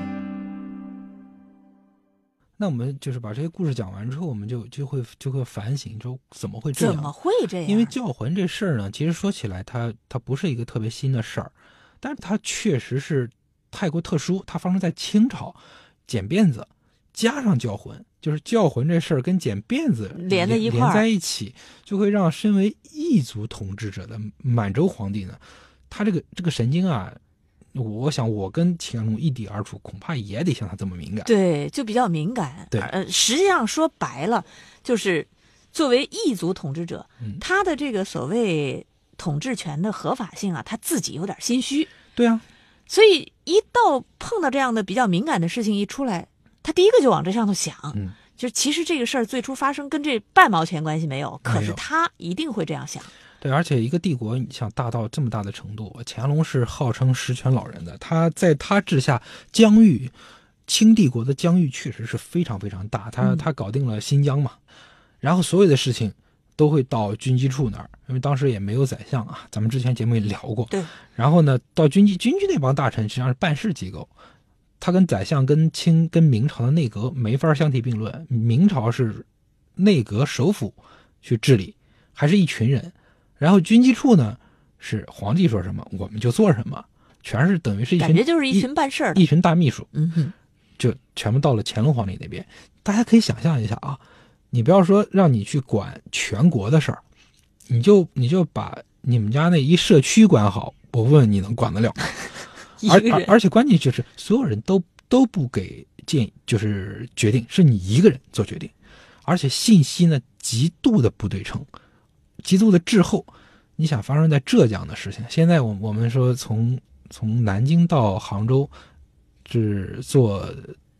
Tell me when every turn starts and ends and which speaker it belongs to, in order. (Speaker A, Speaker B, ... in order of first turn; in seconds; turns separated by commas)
Speaker A: 2.6-7.1, Speaker B: 6.8-7.9, Speaker A: 7.6-27.2, Speaker B: 20.1-21.1, Speaker A: 27.7-31.3, Speaker B: 31.2-41.9, Speaker A: 42.1-42.4, Speaker B: 42.9-53.1, Speaker A: 51.5-51.8, Speaker A: 53.4-60.1, Speaker A: 60.7-64.6, Speaker A: 65.2-74.1, Speaker A: 74.8-79.3, Speaker A: 79.8-89.9, Speaker B: 88.0-89.2, Speaker B: 89.9-90.3, Speaker A: 90.8-97.0, Speaker A: 97.7-102.1, Speaker B: 102.8-103.3, Speaker A: 102.8-108.7, Speaker A: 109.2-111.7, Speaker A: 112.4-118.7, Speaker A: 119.5-120.8